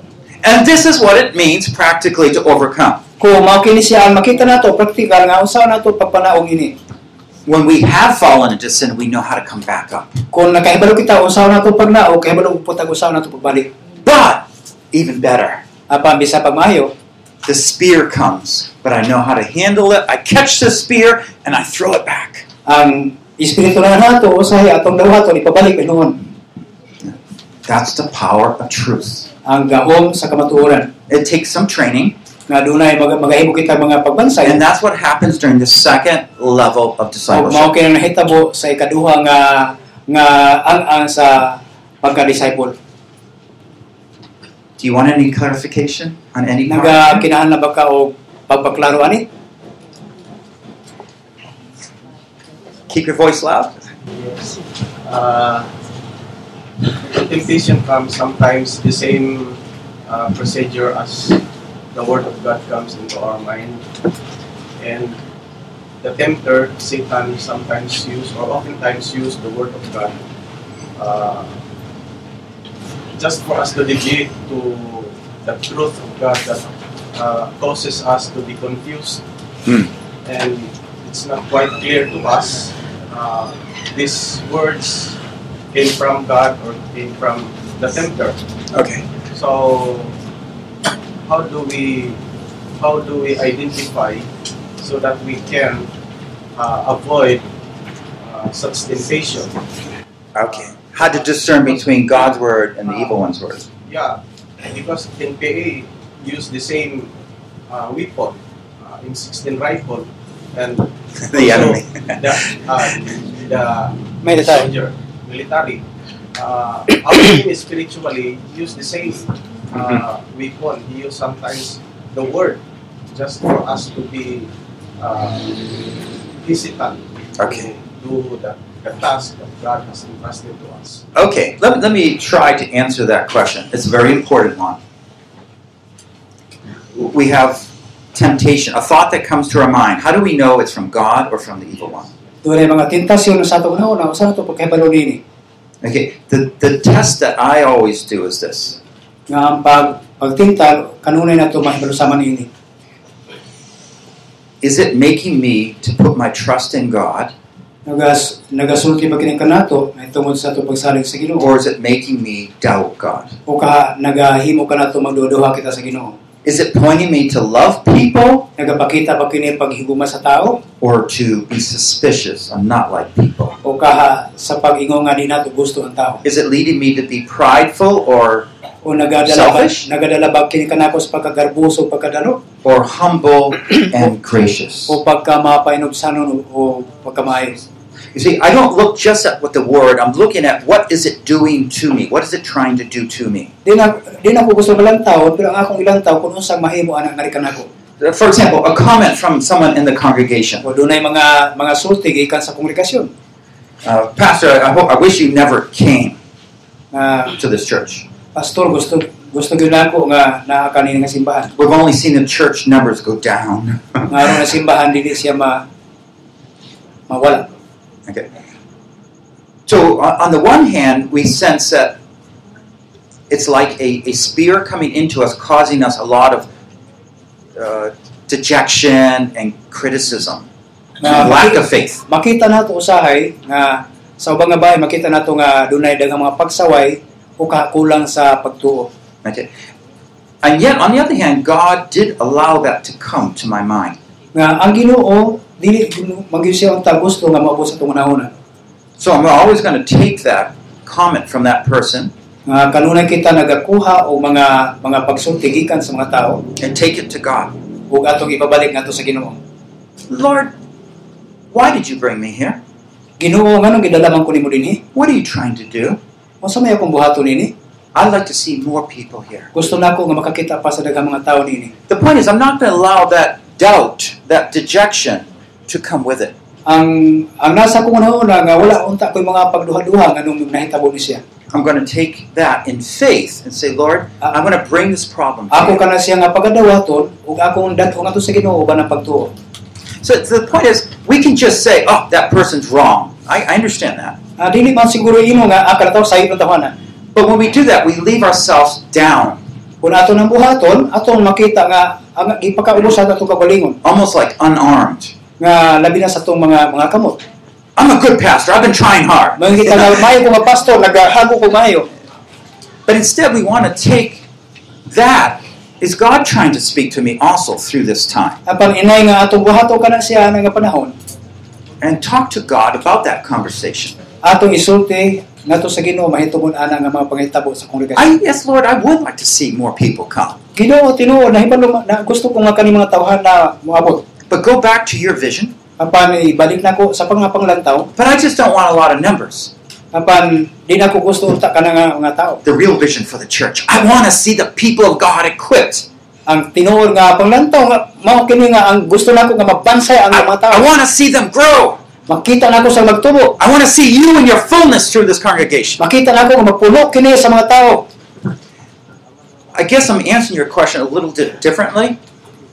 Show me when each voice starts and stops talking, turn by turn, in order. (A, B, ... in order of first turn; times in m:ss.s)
0:00.4-0:03.0 A
0:03.2-0:06.8 B
0:07.4-0:10.2 A
0:10.3-0:13.7 B
0:14.0-0:15.6 A
0:15.9-0:16.9 B
0:17.4-0:22.4 A
0:22.6-0:26.2 B
0:27.0-0:29.3 A
0:29.4-0:30.9 B
0:31.1-0:32.2 A
0:32.5-0:34.6 B
0:34.4-0:37.7 A
0:37.3-0:42.7 B
0:44.8-0:47.2 A
0:46.7-0:49.3 B
0:52.9-0:53.8 A
0:54.1-0:55.7 C
0:56.8-1:01.4 C
1:01.9-1:03.8 C
1:04.8-1:05.2 C
1:06.0-1:10.1 C
1:11.0-1:11.5 C
1:13.1-1:19.2 C
1:20.2-1:25.2 C
1:25.7-1:28.4 C
1:28.7-1:29.0 A
1:29.3-1:30.1 C
1:31.2-1:32.2 C
1:32.8-1:34.3 C
1:34.8-1:35.9 C
1:36.6-1:37.4 C
1:38.2-1:39.6 C
1:40.3-1:43.7 A
1:43.9-1:47.1 C
1:47.7-1:55.8 C
1:51.2-1:52.2 A
1:54.2-1:54.7 B
1:56.4-2:05.8 C
2:06.4-2:11.0 C
2:07.4-2:07.7 A
2:11.1-2:14.8 A
2:16.9-2:22.1 A
2:22.4-2:25.2 B
2:25.8-2:28.8 A
2:29.3-2:32.5 B
2:34.6-2:37.3 A
2:37.8-2:41.4 B
2:41.4-2:43.3 A
2:43.4-2:46.2 B
2:46.4-2:48.5 A
2:48.6-2:50.6 B
2:50.8-2:53.6 A
2:53.6-2:56.2 B
2:56.2-2:58.5 A
2:58.8-3:02.4 B
2:59.2-2:59.8 A
3:02.6-3:05.0 A
3:04.9-3:07.6 B
3:08.1-3:13.5 A
3:13.6-3:17.7 B
3:18.0-3:20.6 A
3:20.6-3:23.1 B
3:23.8-3:26.2 A
3:26.9-3:27.3 B
3:27.4-3:28.0 A
3:28.3-3:31.5 B
3:31.5-3:34.2 A
3:34.1-3:35.6 B
3:37.1-3:37.5 B
3:39.7-3:42.0 A
3:43.3-3:46.5 A
3:47.5-3:50.5 A
3:51.0-3:58.9 B
3:51.0-3:52.0 A
3:59.2-3:59.5 A
4:00.4-4:04.0 A
4:04.3-4:08.3 B
4:09.0-4:12.1 A
4:12.5-4:16.4 B
4:16.6-4:17.5 A
4:17.9-4:19.4 B
4:20.1-4:20.5 A
4:21.5-4:22.6 A
4:23.2-4:24.8 B
4:24.9-4:26.0 A
4:26.4-4:27.5 B
4:27.9-4:29.5 A
4:29.5-4:31.7 B
4:31.9-4:36.3 A
4:36.6-4:41.2 B
4:41.5-4:45.8 A
4:45.5-4:49.3 B
4:50.0-4:54.2 A
4:54.4-4:56.7 B
4:57.1-4:59.4 A
4:59.8-5:03.8 B
5:03.8-5:05.1 A
5:05.4-5:07.2 B
5:07.8-5:10.0 A
5:09.4-5:11.9 B
5:12.9-5:14.2 A
5:14.9-5:18.4 A
5:18.4-5:20.9 B
5:21.8-5:24.0 A
5:24.2-5:28.1 B
5:27.9-5:30.4 A
5:30.6-5:34.0 B
5:34.3-5:35.5 A
5:35.8-5:37.9 B
5:38.0-5:39.5 A
5:39.9-5:42.4 B
5:42.4-5:45.9 A
5:46.3-5:50.7 B
5:50.1-5:51.8 A
5:52.1-5:53.4 B
5:53.4-5:55.8 A
5:55.8-5:57.9 B
5:59.5-6:02.0 A